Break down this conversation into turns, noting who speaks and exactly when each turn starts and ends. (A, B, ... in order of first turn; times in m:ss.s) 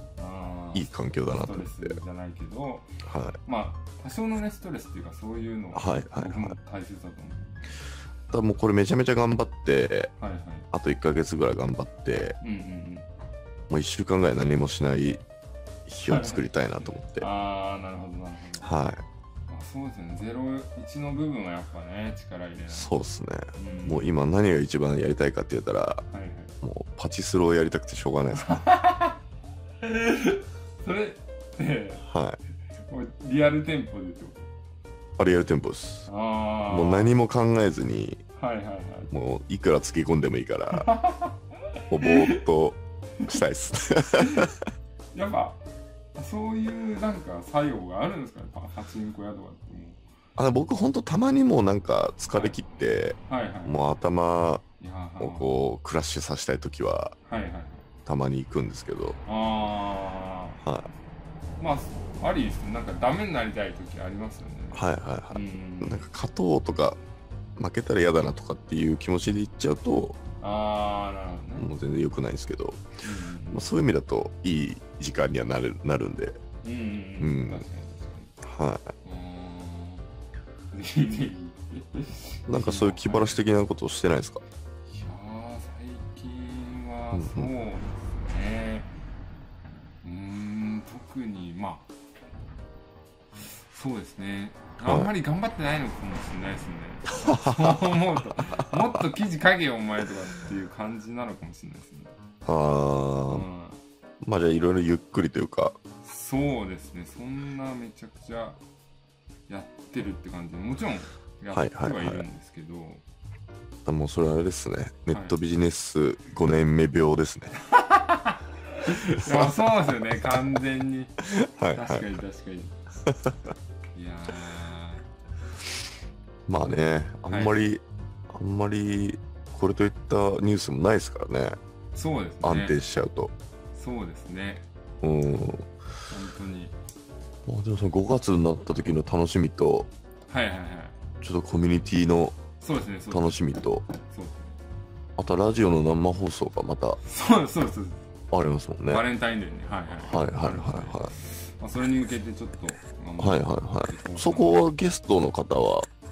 0:00.2-0:02.9 A
0:00.7-0:01.9 B
0:03.0-0:03.4 B
0:03.4-0:07.7 A
0:05.8-0:06.6 B
0:08.3-0:10.1 B
0:10.2-0:10.7 A
0:10.7-0:12.4 B
0:12.4-0:13.1 A
0:13.7-0:15.2 B
0:15.9-0:17.3 B
0:16.0-0:18.7 A
0:18.6-0:19.0 B
0:19.5-0:22.9 A
0:22.7-0:26.0 B
0:23.5-0:24.1 A
0:26.1-0:26.5 A
0:26.6-0:28.6 B
0:28.3-0:29.2 A
0:29.8-0:32.0 A
0:32.0-0:32.4 B
0:32.9-0:34.5 A
0:35.2-0:36.1 B
0:36.1-0:37.1 A
0:36.7-0:38.2 B
0:38.4-0:39.1 A
0:39.1-0:40.9 B
0:40.7-0:42.4 A
0:41.9-0:44.6 B
0:44.2-0:44.5 A
0:45.1-0:45.6 A
0:46.1-0:50.0 A
0:50.4-0:54.6 B
0:52.3-0:52.6 A
0:53.3-0:53.8 A
0:54.8-0:55.6 A
0:55.2-0:57.1 B
0:57.2-0:57.9 A
0:58.0-0:59.2 B
0:59.2-1:00.6 A
1:00.6-1:00.9 B
1:01.6-1:06.1 A
1:04.7-1:07.0 B
1:07.6-1:10.2 B
1:10.4-1:11.7 A
1:11.6-1:12.8 B
1:13.0-1:13.7 A
1:13.5-1:16.4 B
1:16.6-1:18.3 A
1:17.2-1:17.6 B
1:18.4-1:18.9 B
1:19.0-1:20.1 A
1:20.7-1:23.4 A
1:22.5-1:24.4 B
1:24.9-1:28.9 A
1:27.1-1:27.5 B
1:30.0-1:31.9 A
1:33.7-1:42.1 A
1:37.2-1:37.8 B
1:42.4-1:43.5 B
1:43.3-1:43.8 A
1:44.2-1:45.8 B
1:46.0-1:48.6 A
1:49.5-1:53.0 A
1:51.5-1:52.2 B
1:53.8-1:57.5 B
1:55.1-1:55.4 A
1:57.7-2:02.8 A
1:59.1-1:59.5 B
2:01.3-2:02.0 B
2:03.1-2:03.3 B
2:04.0-2:05.0 A
2:06.5-2:11.6 B
2:07.3-2:07.6 A
2:12.0-2:12.8 A
2:12.4-2:13.3 B
2:13.7-2:14.6 A
2:15.0-2:15.7 B
2:16.1-2:16.8 A
2:17.5-2:19.9 B
2:20.3-2:21.0 A
2:21.2-2:22.4 B
2:22.6-2:23.4 A
2:23.1-2:23.9 B
2:24.0-2:24.6 A
2:25.2-2:27.0 B
2:27.0-2:28.0 A
2:28.3-2:29.0 B
2:28.9-2:34.6 A
2:30.0-2:31.1 B
2:33.2-2:35.9 B